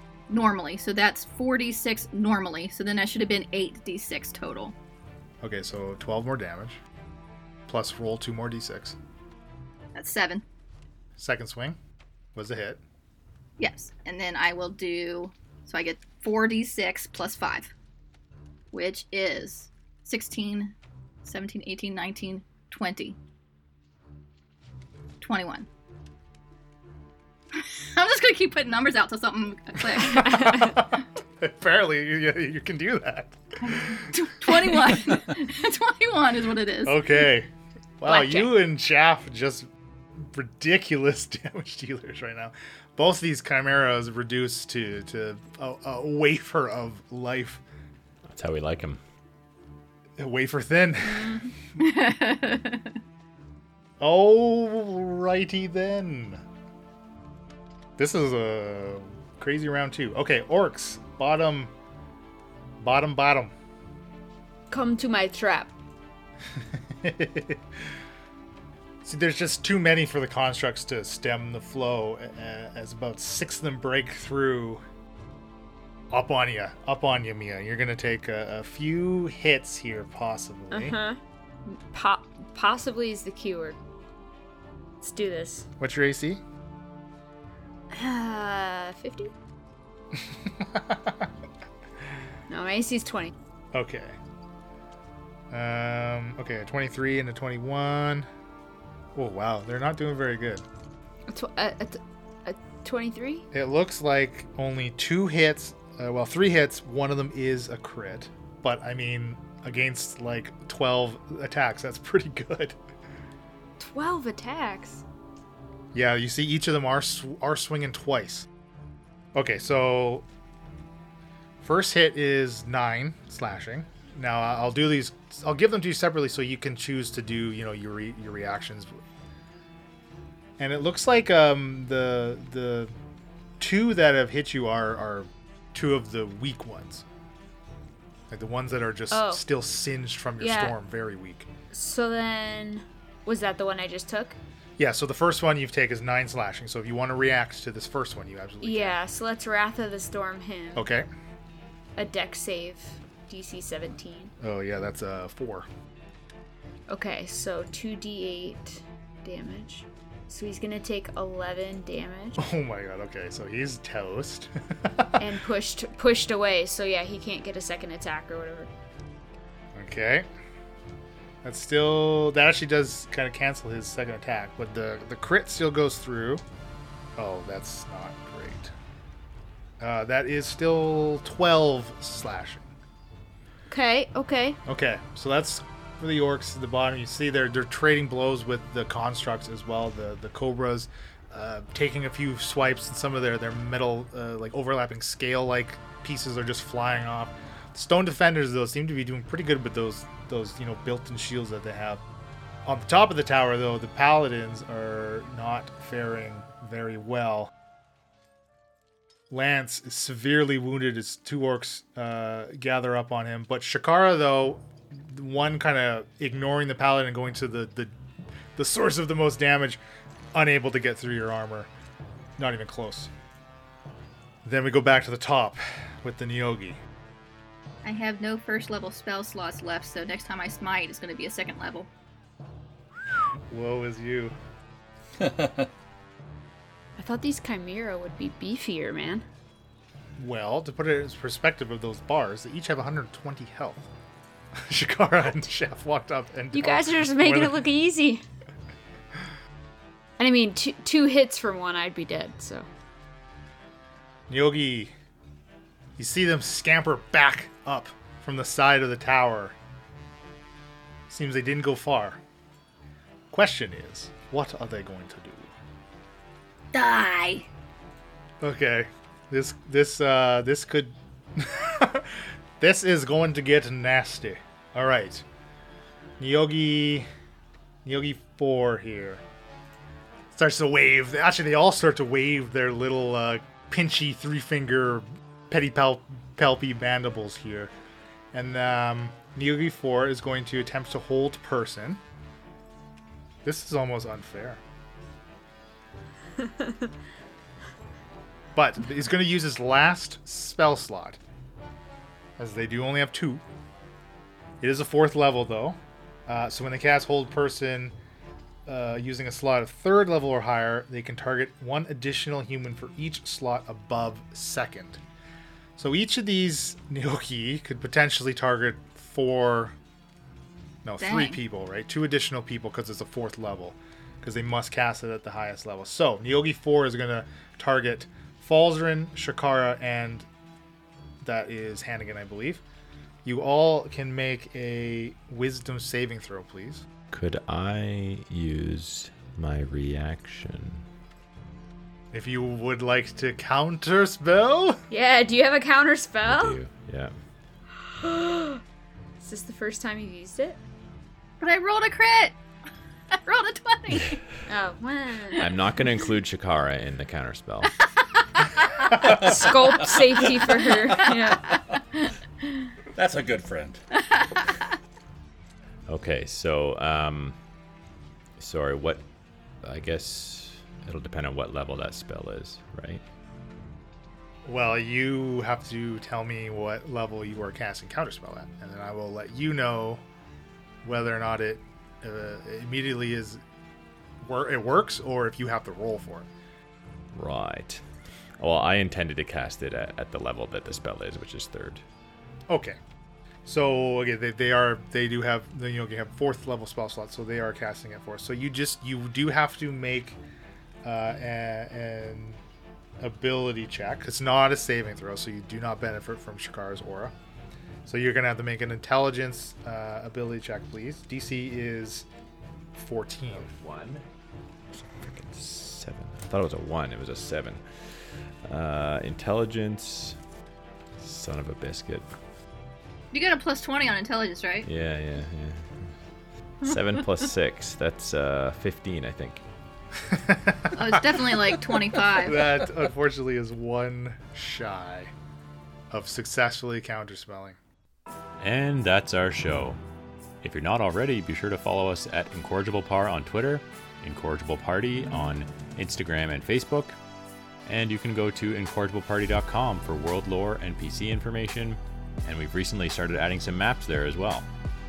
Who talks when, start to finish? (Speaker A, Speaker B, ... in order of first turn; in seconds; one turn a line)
Speaker A: 0.3-4.8
Speaker B: 5.4-6.8
Speaker B: 7.7-9.0
Speaker A: 9.9-10.4
Speaker B: 11.2-11.8
Speaker B: 12.3-12.8
Speaker A: 13.6-17.7
Speaker A: 18.7-20.7
Speaker A: 21.2-23.2
Speaker A: 25.2-25.7
Speaker A: 27.5-30.8
Speaker B: 30.0-34.1
Speaker C: 30.1-30.8
Speaker A: 33.6-37.0
Speaker B: 34.6-35.0
Speaker B: 36.9-47.6
Speaker C: 38.1-38.5
Speaker D: 48.3-49.0
Speaker B: 50.2-51.4
Speaker C: 51.0-51.5
Speaker A: 51.8-52.9
Speaker B: 54.0-56.4
Speaker B: 58.0-61.7
Speaker B: 62.8-63.5
Speaker C: 64.7-65.7
Speaker B: 66.6-67.6
Speaker B: 69.0-74.8
Speaker B: 76.1-81.0
Speaker C: 80.7-83.8
Speaker C: 85.0-85.7
Speaker B: 85.8-86.4
Speaker C: 87.9-89.3
Speaker B: 90.1-91.3
Speaker C: 92.5-93.3
Speaker B: 93.7-94.2
Speaker B: 95.5-98.3
Speaker B: 99.2-100.6
Speaker C: 101.3-103.5
Speaker B: 103.5-112.8
Speaker C: 113.8-115.0
Speaker B: 115.9-118.5
Speaker B: 119.3-120.2
Speaker B: 121.6-129.0
Speaker B: 130.6-132.9
Speaker B: 133.6-137.1
Speaker B: 138.3-141.5
Speaker C: 139.1-139.4
Speaker C: 140.4-140.8
Speaker C: 141.7-144.4
Speaker B: 144.8-149.0
Speaker C: 148.6-150.9
Speaker B: 150.8-151.1
Speaker C: 152.0-154.3
Speaker B: 154.4-155.7
Speaker C: 156.9-162.4
Speaker B: 162.4-165.1
Speaker C: 165.2-168.7
Speaker B: 169.8-170.3
Speaker B: 171.4-176.4
Speaker B: 177.2-178.7
Speaker B: 179.8-182.7
Speaker C: 183.7-184.6
Speaker B: 184.7-202.0
Speaker B: 202.7-207.5
Speaker B: 209.3-217.9
Speaker B: 218.6-219.8
Speaker B: 220.3-221.7
Speaker B: 222.4-223.1
Speaker B: 224.4-226.8
Speaker A: 227.8-231.9
Speaker B: 233.5-234.4
Speaker E: 235.2-235.7
Speaker C: 237.0-239.2
Speaker B: 240.2-243.9
Speaker B: 244.6-247.6
Speaker C: 246.5-248.2
Speaker C: 250.2-252.7
Speaker B: 254.3-254.9
Speaker B: 256.0-259.6
Speaker B: 261.1-262.2
Speaker B: 263.3-265.5
Speaker A: 266.7-267.5
Speaker B: 268.4-275.2
Speaker B: 276.2-277.1
Speaker B: 277.8-279.2
Speaker B: 280.3-287.7
Speaker B: 288.3-292.0
Speaker B: 293.4-294.6
Speaker C: 296.4-296.9
Speaker B: 298.6-301.2
Speaker B: 302.4-303.4
Speaker B: 304.6-308.0
Speaker B: 308.7-315.0
Speaker B: 315.8-319.8
Speaker B: 320.9-330.3
Speaker A: 321.0-321.4
Speaker B: 331.2-332.6
Speaker B: 333.2-336.9
Speaker D: 337.1-340.8
Speaker B: 342.1-344.8
Speaker C: 344.9-346.6
Speaker D: 346.2-347.1
Speaker C: 347.8-348.6
Speaker C: 349.2-350.6
Speaker A: 351.4-352.4
Speaker A: 353.2-354.2
Speaker C: 354.5-355.5
Speaker D: 355.4-357.8
Speaker A: 358.2-358.9
Speaker E: 358.9-361.2
Speaker C: 359.0-361.6
Speaker E: 363.0-363.8
Speaker A: 364.0-364.4
Speaker D: 365.9-367.4
Speaker D: 368.4-369.1
Speaker D: 369.6-373.0
Speaker B: 374.4-380.0
Speaker B: 380.8-383.4
Speaker B: 384.2-386.3
Speaker D: 387.1-387.9
Speaker D: 388.4-391.8
Speaker B: 392.5-392.8
Speaker B: 393.5-400.2
Speaker B: 400.8-402.4
Speaker B: 403.0-407.1
Speaker B: 407.9-412.1
Speaker B: 412.8-413.5
Speaker D: 413.3-414.1
Speaker D: 414.8-420.2
Speaker D: 421.0-422.1
Speaker A: 423.1-424.7
Speaker D: 424.6-426.0
Speaker D: 426.6-429.4
Speaker B: 430.0-431.0
Speaker A: 430.7-432.4
Speaker B: 432.2-435.1
Speaker B: 435.9-437.6
Speaker D: 438.4-439.8
Speaker D: 440.4-447.0
Speaker D: 447.7-454.5